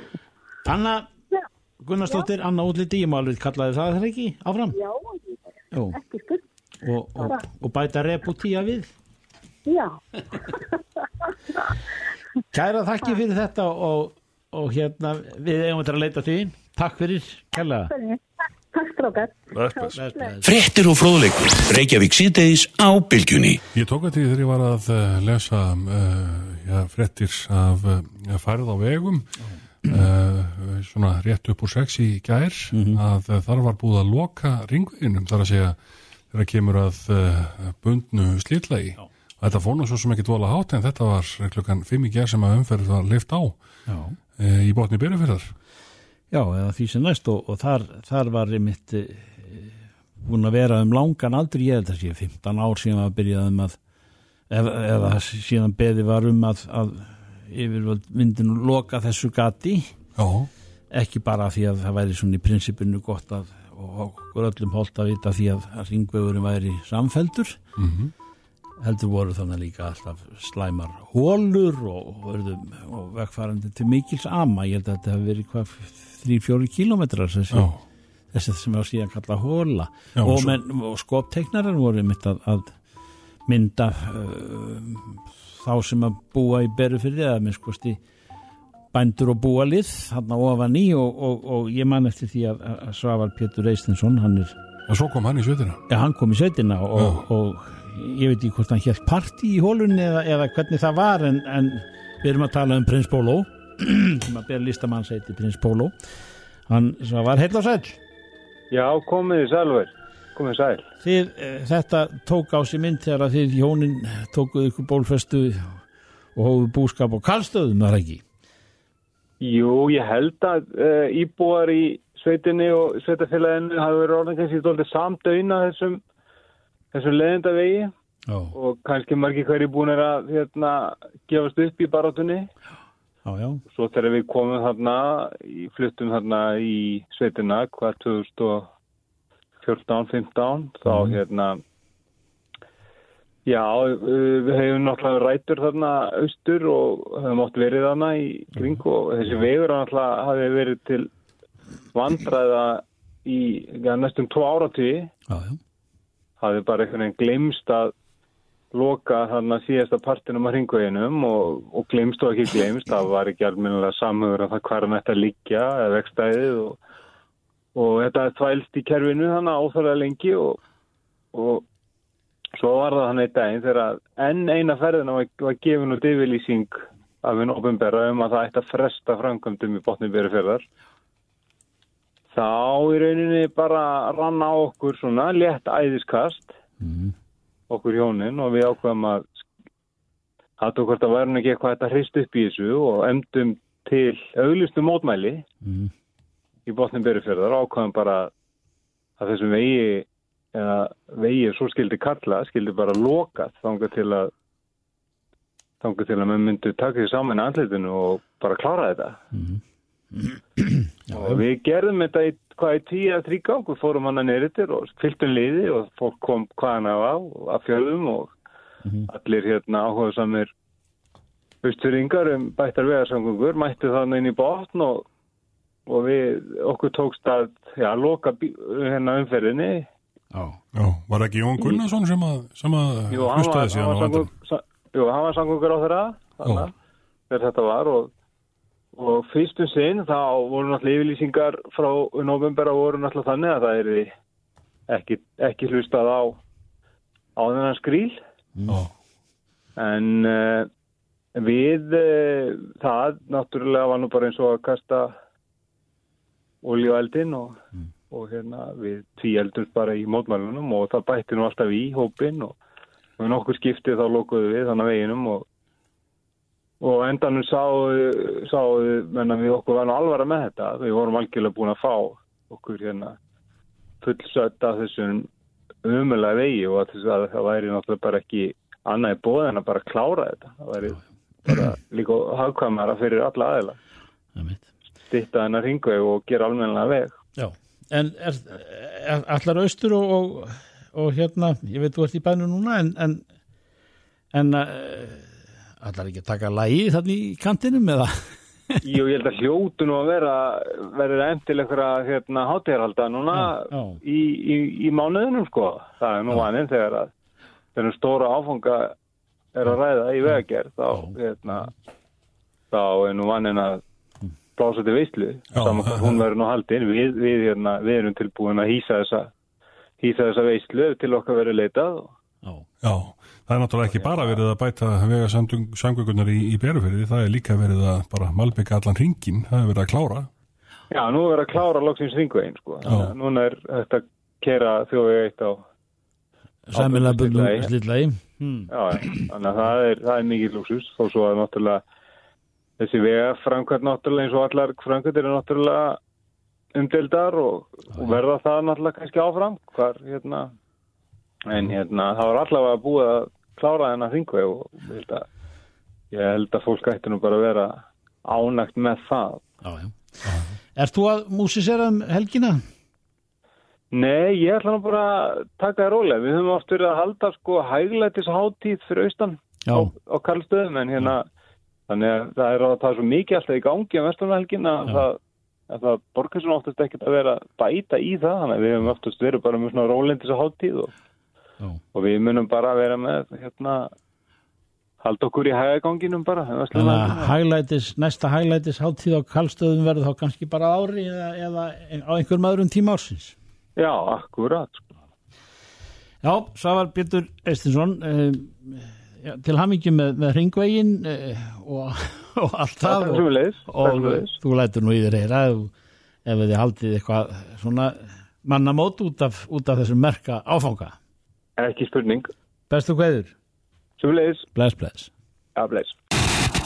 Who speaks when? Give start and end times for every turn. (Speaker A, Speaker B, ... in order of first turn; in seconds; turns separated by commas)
Speaker A: 0.7-1.1, Speaker A: 1.8-4.8, Speaker B: 4.7-5.4, Speaker A: 5.7-6.0, Speaker B: 5.9-6.4, Speaker A: 6.8-8.9, Speaker B: 9.7-10.6, Speaker A: 12.5-17.9, Speaker B: 17.8-18.2, Speaker B: 18.7-20.0, Speaker C: 19.6-19.9, Speaker A: 19.9-20.5, Speaker D: 20.4-23.6, Speaker C: 23.7-29.3, Speaker A: 29.4-30.1, Speaker C: 29.9-35.8, Speaker A: 32.7-33.0, Speaker C: 36.3-43.6, Speaker A: 43.9-44.2, Speaker C: 44.4-45.5, Speaker A: 46.3-53.8, Speaker A: 54.5-59.9, Speaker C: 60.2-60.5, Speaker A: 60.9-67.6, Speaker C: 67.8-68.1, Speaker A: 68.8-77.7, Speaker C: 77.5-77.8, Speaker A: 78.3-82.8, Speaker C: 80.2-80.6, Speaker A: 83.5-88.0, Speaker A: 88.9-94.6, Speaker C: 94.9-95.8, Speaker A: 95.9-106.0, Speaker C: 97.0-97.2, Speaker A: 106.7-108.0, Speaker E: 108.7-110.8, Speaker A: 111.0-115.8, Speaker A: 116.4-118.2, Speaker E: 119.4-126.0, Speaker E: 126.9-127.9, Speaker A: 128.3-128.6, Speaker E: 128.6-132.5, Speaker A: 133.3-133.6, Speaker E: 133.7-138.7, Speaker E: 139.6-141.6, Speaker A: 140.9-141.2, Speaker E: 143.5-151.1, Speaker E: 151.9-155.1, Speaker A: 155.3-155.6, Speaker E: 156.4-157.9, Speaker E: 158.7-166.8, Speaker E: 167.8-170.6, Speaker E: 171.3-171.7, Speaker E: 172.6-180.6, Speaker E: 182.3-186.5, Speaker A: 186.8-187.1, Speaker E: 187.7-189.3, Speaker E: 190.6-195.4, Speaker A: 195.6-195.9, Speaker E: 196.7-198.3, Speaker E: 199.2-204.3, Speaker E: 205.8-209.2, Speaker A: 209.3-209.6, Speaker A: 210.1-211.4, Speaker E: 211.1-218.3, Speaker E: 219.1-220.5, Speaker E: 221.6-225.1, Speaker E: 225.9-229.9, Speaker A: 230.3-230.6, Speaker C: 230.8-234.3, Speaker E: 233.1-236.7, Speaker C: 236.4-236.7, Speaker E: 237.3-238.1, Speaker E: 238.9-244.1, Speaker E: 244.9-246.4, Speaker E: 247.4-248.2, Speaker A: 248.6-248.8, Speaker E: 249.8-250.7, Speaker E: 251.4-255.2, Speaker E: 256.6-257.6, Speaker E: 258.1-262.6, Speaker E: 263.2-265.4, Speaker E: 266.8-273.2, Speaker E: 274.0-275.3, Speaker E: 275.8-283.8, Speaker A: 284.4-284.7, Speaker E: 285.1-287.2, Speaker A: 287.4-293.2, Speaker A: 294.3-298.8, Speaker E: 298.8-307.1, Speaker A: 303.3-304.0, Speaker E: 307.8-308.9, Speaker E: 309.6-311.7, Speaker A: 310.9-311.2, Speaker E: 312.7-313.8, Speaker E: 314.6-319.3, Speaker C: 315.5-316.2, Speaker E: 320.0-322.1, Speaker C: 322.8-330.3, Speaker E: 324.0-324.4, Speaker E: 330.9-335.6, Speaker C: 332.9-333.1, Speaker A: 336.7-339.3, Speaker E: 336.7-337.7, Speaker E: 338.7-341.8, Speaker E: 342.8-346.0, Speaker E: 346.8-350.5, Speaker E: 351.5-355.3, Speaker E: 356.1-359.4, Speaker A: 359.6-362.6, Speaker E: 363.9-371.3, Speaker A: 369.7-369.9, Speaker E: 371.9-380.9, Speaker E: 381.9-383.9, Speaker E: 385.0-387.4, Speaker A: 386.7-393.4, Speaker E: 393.8-394.9, Speaker A: 396.2-405.7, Speaker E: 402.8-404.4, Speaker A: 406.2-411.0, Speaker E: 411.6-412.3, Speaker A: 412.7-413.3, Speaker E: 414.0-414.5, Speaker A: 414.5-415.1, Speaker E: 415.6-416.0